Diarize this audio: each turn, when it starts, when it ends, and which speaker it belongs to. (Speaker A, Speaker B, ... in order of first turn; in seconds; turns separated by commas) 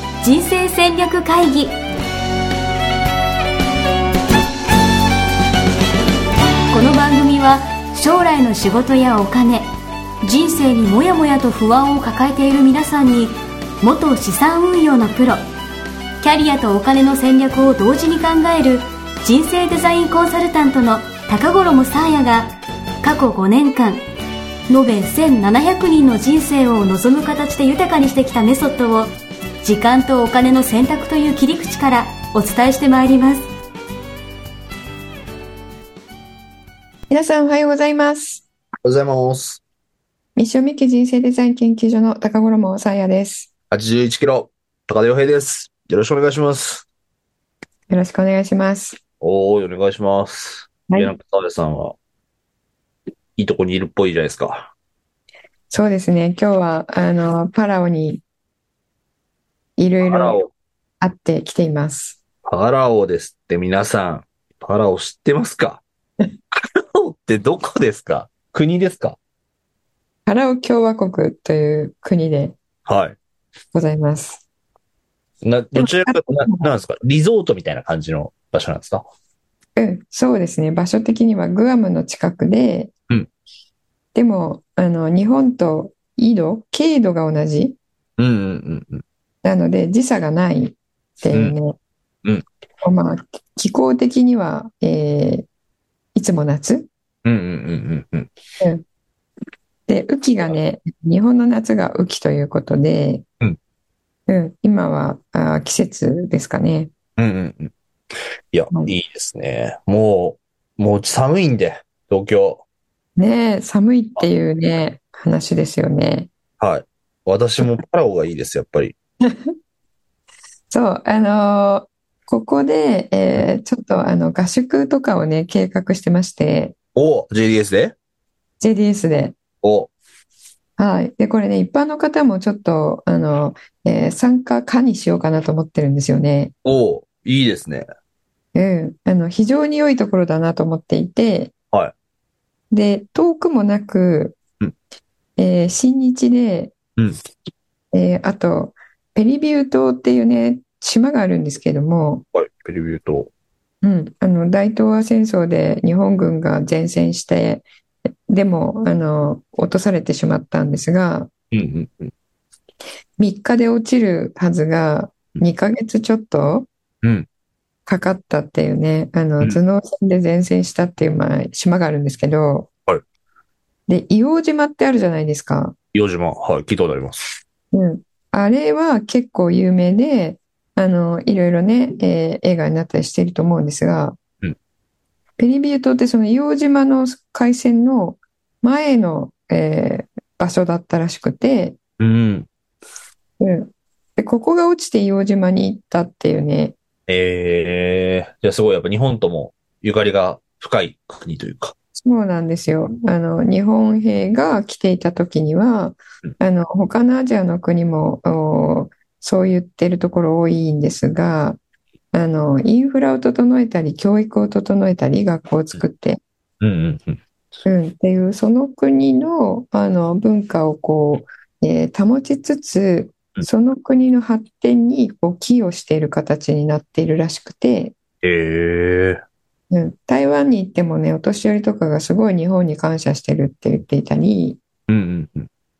Speaker A: 0.2-1.8, Speaker A: 6.7-9.7, Speaker A: 10.2-15.4, Speaker A: 16.2-22.5, Speaker A: 23.0-24.0, Speaker A: 24.7-29.1, Speaker A: 29.6-33.5, Speaker B: 37.1-38.5, Speaker C: 38.8-39.6, Speaker B: 40.4-43.5, Speaker C: 43.7-46.9, Speaker B: 47.9-49.0, Speaker C: 49.2-52.0, Speaker B: 50.9-51.1, Speaker C: 53.4-54.7, Speaker B: 55.7-58.2, Speaker B: 59.8-60.4, Speaker C: 60.0-60.5, Speaker B: 61.0-62.2, Speaker C: 62.5-65.8, Speaker C: 66.5-69.2, Speaker B: 70.3-72.6, Speaker C: 72.9-73.2, Speaker B: 73.7-74.4, Speaker C: 75.4-79.1, Speaker B: 75.7-76.7, Speaker B: 79.8-82.9, Speaker B: 84.2-87.8, Speaker C: 88.2-89.0, Speaker B: 89.4-91.8, Speaker B: 92.8-95.5, Speaker B: 96.2-96.9, Speaker C: 97.2-98.3, Speaker B: 99.9-103.2, Speaker B: 104.3-106.9, Speaker C: 107.2-107.7, Speaker C: 108.5-112.6, Speaker B: 113.2-116.3, Speaker C: 116.6-119.0, Speaker B: 119.2-119.5, Speaker B: 120.7-126.8, Speaker C: 127.0-128.0, Speaker B: 128.6-129.4, Speaker C: 129.6-129.9, Speaker B: 130.8-136.5, Speaker C: 136.6-137.9, Speaker B: 138.6-141.5, Speaker B: 142.7-144.4, Speaker B: 145.4-146.8, Speaker B: 147.9-152.2, Speaker C: 152.3-153.3, Speaker B: 153.8-157.7, Speaker B: 158.3-161.3, Speaker C: 161.5-162.1, Speaker B: 163.2-166.7, Speaker B: 167.9-172.7, Speaker B: 173.9-175.8, Speaker C: 175.9-177.3, Speaker B: 177.7-184.2, Speaker B: 185.4-191.8, Speaker C: 192.0-192.5, Speaker B: 193.4-196.8, Speaker C: 197.1-201.7, Speaker B: 201.9-211.6, Speaker B: 212.1-216.2, Speaker C: 216.6-217.7, Speaker B: 217.7-227.9, Speaker C: 228.2-229.2, Speaker B: 229.7-234.6, Speaker C: 234.9-235.5